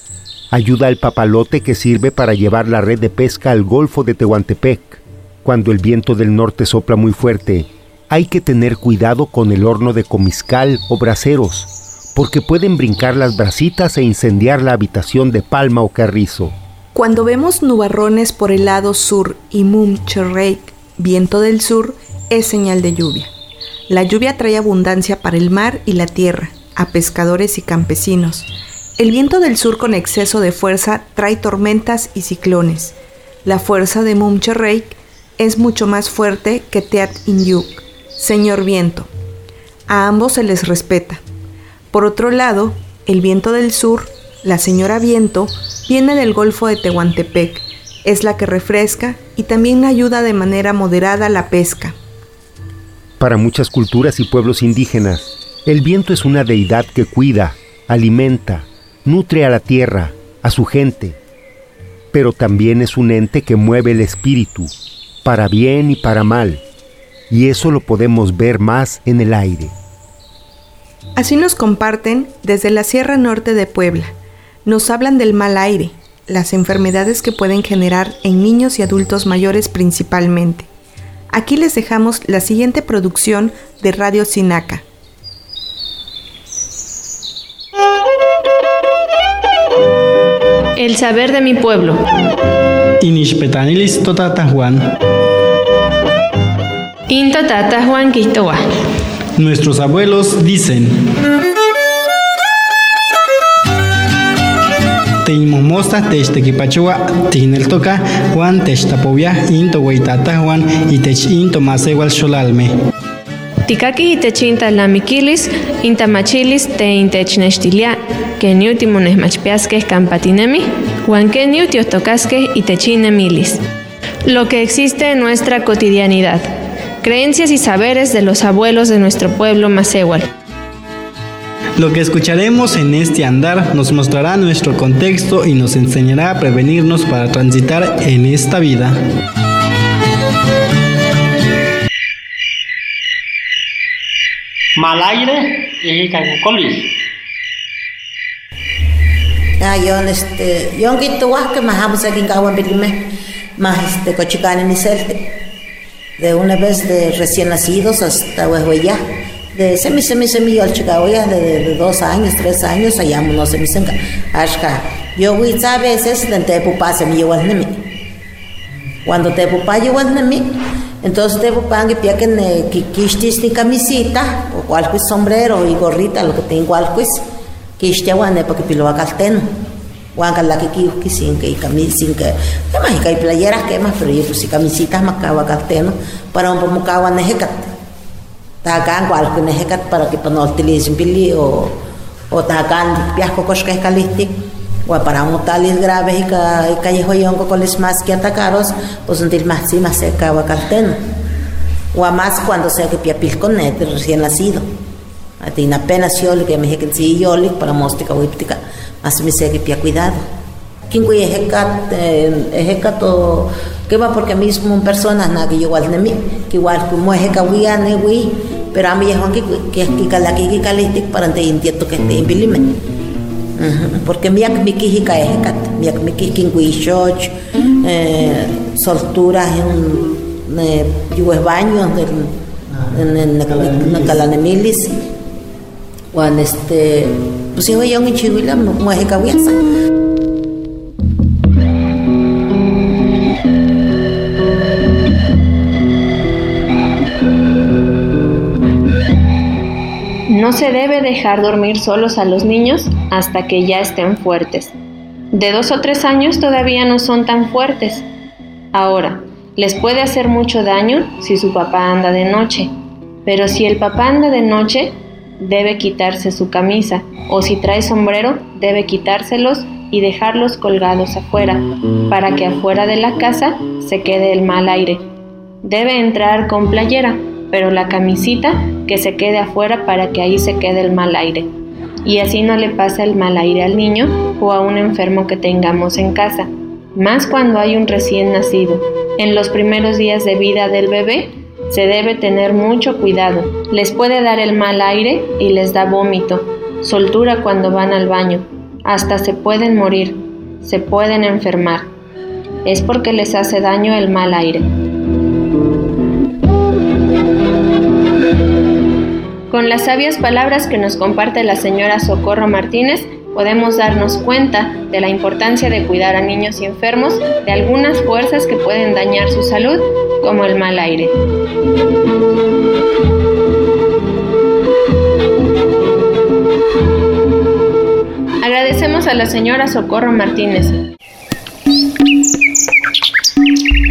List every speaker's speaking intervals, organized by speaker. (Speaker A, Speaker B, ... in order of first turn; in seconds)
Speaker A: 0.5-16.6, 53.2-61.2, 62.1-64.7, 65.2-66.6, 67.3-69.7
Speaker B: 16.9-23.3, 23.9-28.5, 29.0-39.1, 39.9-41.2, 41.9-52.0, 71.2-74.1, 74.6-80.7, 81.3-84.8
Speaker C: 90.8-92.0, 97.1-98.6, 114.4-115.2, 115.9-123.5, 124.2-126.4, 127.0-130.2, 250.3-254.8, 255.3-258.1, 258.7-262.7, 263.2-275.1, 275.6-281.5, 282.1-301.9, 302.6-304.7, 309.5-321.2, 328.4-330.8
Speaker D: 93.0-94.8, 99.4-100.9, 105.2-112.7, 131.8-138.9
Speaker E: 144.8-146.9
Speaker F: 149.6-155.4, 156.2-159.0, 159.5-167.8, 169.1-177.2, 177.8-187.8, 188.6-191.8, 192.3-194.3, 194.9-201.0, 201.9-204.7, 205.4-210.2, 210.9-222.8, 223.6-234.9, 236.1-239.6